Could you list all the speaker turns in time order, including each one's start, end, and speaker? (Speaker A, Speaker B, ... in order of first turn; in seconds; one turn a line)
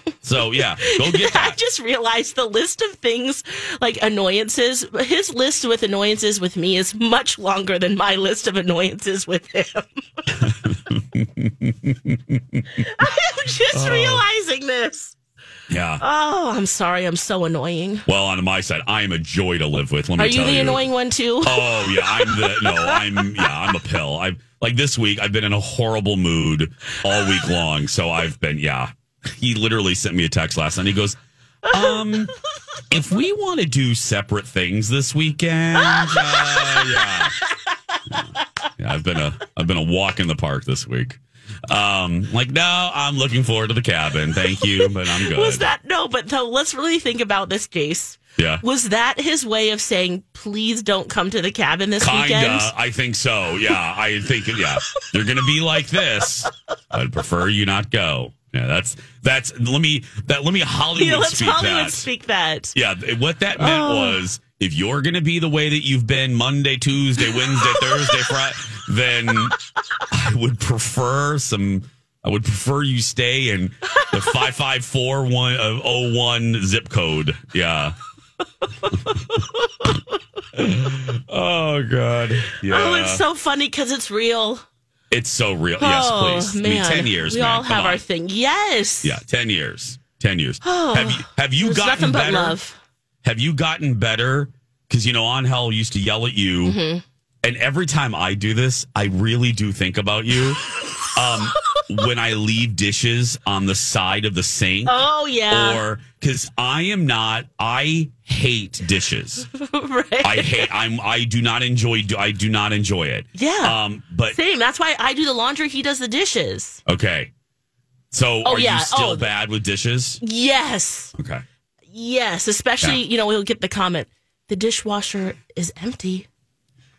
Speaker A: 0.2-1.6
Speaker B: 0.6-10.5
Speaker A: 10.4-12.8
Speaker B: 12.8-15.2
Speaker A: 13.7-14.2
Speaker A: 15.7-16.0
Speaker B: 16.0-18.1
Speaker A: 18.1-20.9
Speaker B: 20.2-23.5
Speaker A: 21.4-32.3
Speaker B: 27.1-27.5
Speaker B: 31.7-32.2
Speaker A: 32.9-37.4
Speaker B: 35.8-38.4
Speaker A: 38.8-45.7
Speaker B: 44.6-52.7
Speaker A: 48.4-48.6
Speaker A: 52.0-62.1
Speaker B: 54.8-55.1
Speaker B: 61.0-62.8
Speaker A: 62.7-69.6
Speaker B: 63.6-64.2
Speaker B: 67.2-68.4
Speaker B: 69.3-69.5
Speaker A: 70.1-78.0
Speaker B: 74.0-74.4
Speaker B: 78.6-80.0
Speaker A: 80.5-83.2
Speaker B: 82.5-84.6
Speaker A: 85.1-88.0
Speaker B: 85.8-89.2
Speaker A: 89.0-92.6
Speaker B: 90.6-92.8
Speaker A: 93.2-96.8
Speaker B: 96.6-97.0
Speaker A: 97.4-105.0
Speaker B: 100.8-101.8
Speaker B: 104.9-105.8
Speaker A: 105.5-109.5
Speaker B: 109.5-110.7
Speaker A: 110.2-114.4
Speaker B: 113.4-113.8
Speaker B: 114.3-116.8
Speaker A: 116.9-117.3
Speaker A: 118.1-120.2
Speaker B: 118.4-119.3
Speaker B: 120.2-121.1
Speaker A: 121.2-121.4
Speaker B: 121.9-126.3